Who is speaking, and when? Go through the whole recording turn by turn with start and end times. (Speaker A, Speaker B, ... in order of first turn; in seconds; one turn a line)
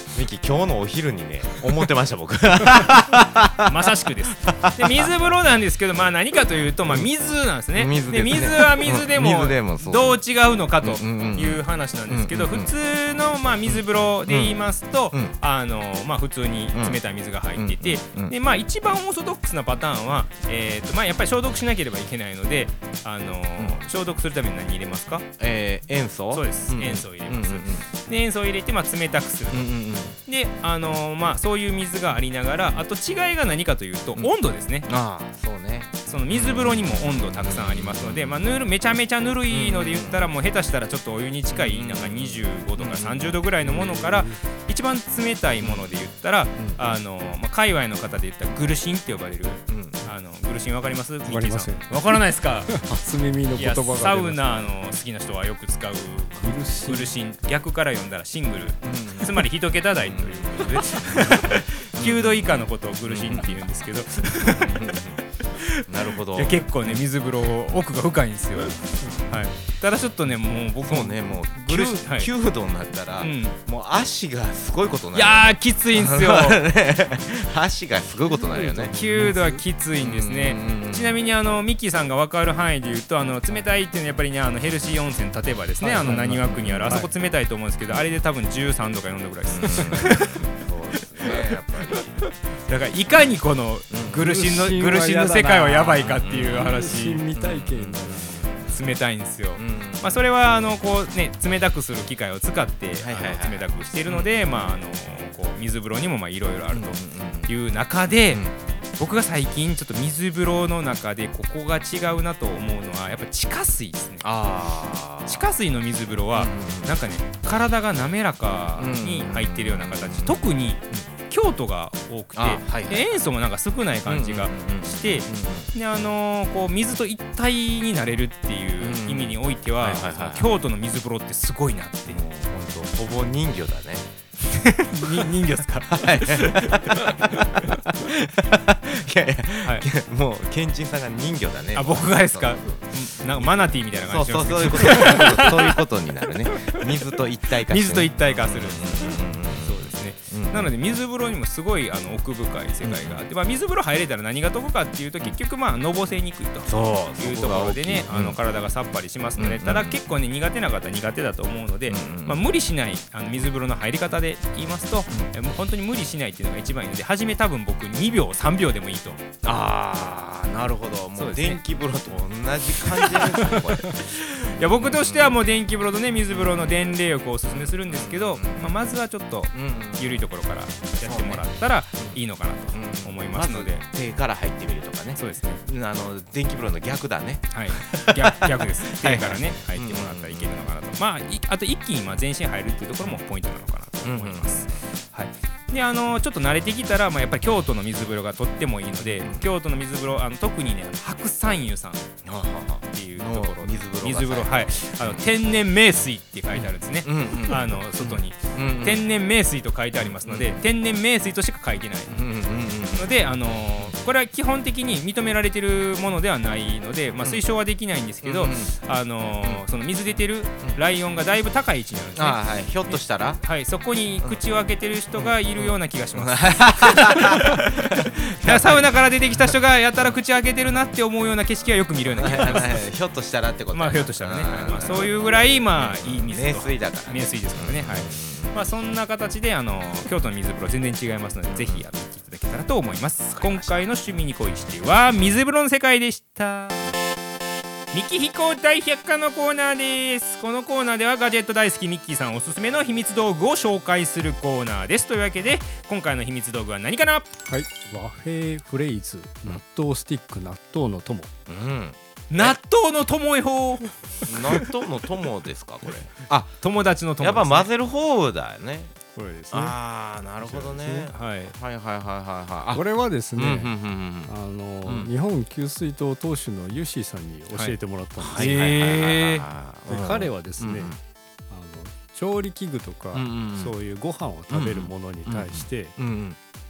Speaker A: 0.1-3.7
Speaker B: 3.6-25.2
Speaker A: 4.4-5.1
Speaker A: 6.8-7.1
Speaker A: 7.7-10.2
Speaker A: 10.8-12.7
Speaker A: 13.7-14.6
Speaker A: 16.7-17.0
Speaker A: 17.5-18.3
Speaker A: 23.6-23.8
Speaker A: 25.4-27.9
Speaker B: 26.3-29.7
Speaker A: 29.5-30.1
Speaker B: 30.2-34.9
Speaker A: 34.9-38.5
Speaker B: 36.0-52.7
Speaker A: 39.5-40.3
Speaker A: 41.5-44.0
Speaker C: 43.8-44.4
Speaker A: 45.6-45.9
Speaker A: 46.6-46.8
Speaker A: 49.7-50.0
Speaker C: 51.2-52.1
Speaker C: 52.7-54.5
Speaker B: 53.5-64.9
Speaker C: 56.3-57.1
Speaker A: 58.8-63.5
Speaker A: 64.4-65.2
Speaker B: 65.5-72.3
Speaker A: 65.9-67.0
Speaker A: 70.8-79.0
Speaker B: 73.2-73.6
Speaker B: 75.1-76.6
Speaker C: 78.5-79.6
Speaker B: 78.9-90.5
Speaker A: 80.0-81.2
Speaker C: 85.8-87.1
Speaker A: 86.0-87.1
Speaker A: 89.5-92.3
Speaker B: 91.0-92.0
Speaker B: 92.7-97.2
Speaker A: 93.9-94.3
Speaker C: 94.1-98.4
Speaker A: 96.1-96.8
Speaker A: 97.3-98.8
Speaker B: 98.6-108.4
Speaker A: 99.6-100.2
Speaker A: 103.0-104.6
Speaker A: 106.7-107.5
Speaker A: 108.3-108.5
Speaker B: 109.0-114.3
Speaker A: 114.2-115.5
Speaker B: 115.3-132.2
Speaker A: 116.3-116.9
Speaker A: 118.8-121.0
Speaker A: 122.3-123.1
Speaker A: 124.0-125.7
Speaker A: 128.8-130.6
Speaker A: 132.1-134.1
Speaker B: 134.5-137.8
Speaker A: 134.9-150.7
Speaker B: 141.7-145.8
Speaker B: 146.8-169.2
Speaker A: 152.8-153.2
Speaker A: 156.7-158.4
Speaker A: 159.4-160.0
Speaker A: 161.9-162.4
Speaker A: 169.4-175.4
Speaker B: 171.1-171.6
Speaker B: 174.2-183.8
Speaker A: 176.3-176.8
Speaker A: 177.5-178.8
Speaker A: 179.5-180.3
Speaker A: 181.0-181.4
Speaker A: 182.7-190.5
Speaker B: 185.2-185.6
Speaker B: 187.5-202.1
Speaker A: 194.0-194.9
Speaker A: 199.0-199.5
Speaker A: 202.2-205.2
Speaker B: 202.9-212.2
Speaker A: 206.5-209.1
Speaker A: 210.0-210.5
Speaker A: 212.1-213.2
Speaker B: 212.9-227.7
Speaker A: 218.2-218.7
Speaker A: 219.3-219.6
Speaker A: 222.1-223.4
Speaker A: 225.2-229.5
Speaker B: 228.4-232.8
Speaker A: 232.2-238.6
Speaker B: 233.7-246.8
Speaker A: 241.4-241.8
Speaker A: 243.3-243.9
Speaker B: 247.9-257.3
Speaker C: 257.5-261.3
Speaker A: 261.5-262.6
Speaker B: 262.3-264.5
Speaker A: 264.2-266.6
Speaker B: 266.6-267.7
Speaker A: 267.2-268.9
Speaker C: 269.1-269.8
Speaker A: 269.5-272.8
Speaker C: 270.4-271.1
Speaker B: 271.1-271.5
Speaker C: 272.7-273.7
Speaker A: 273.3-274.3
Speaker C: 274.2-279.3
Speaker A: 274.8-275.1
Speaker A: 278.2-281.0
Speaker B: 278.4-279.4
Speaker C: 279.8-281.0
Speaker C: 281.5-286.0
Speaker A: 283.1-283.7
Speaker A: 284.5-286.4